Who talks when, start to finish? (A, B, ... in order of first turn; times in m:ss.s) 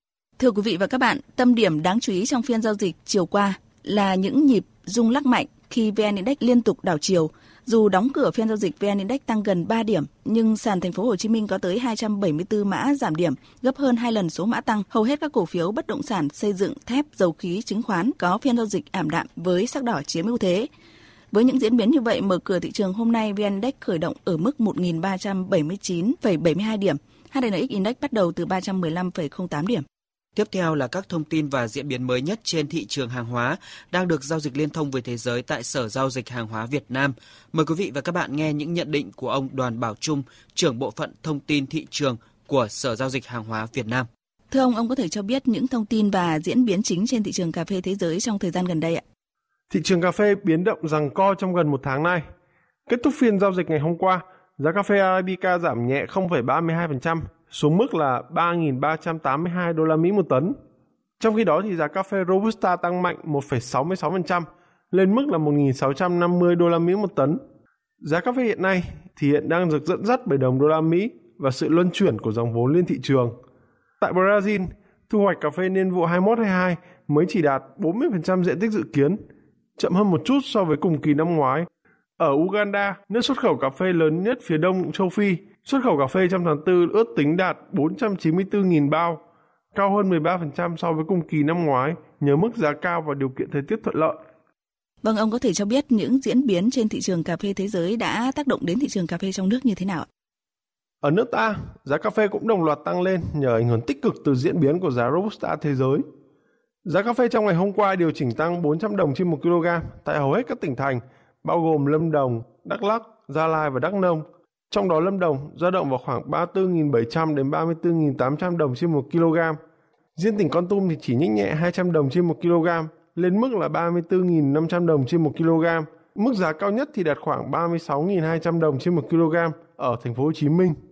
0:00.4-0:20.7 A
0:21.3-0:29.8 A
0:30.3-0:44.1 B
0:44.5-0:49.0 A
0:49.7-0:52.2 C
0:52.9-1:00.5 C
1:01.2-1:07.4 C
1:08.0-1:13.4 C
1:14.0-1:19.2 C
1:19.8-1:21.7 C
1:22.2-1:29.2 C
1:29.7-1:34.2 C
1:35.0-1:40.1 A
1:41.0-1:46.0 C
1:46.8-1:59.6 C
2:00.2-2:10.7 C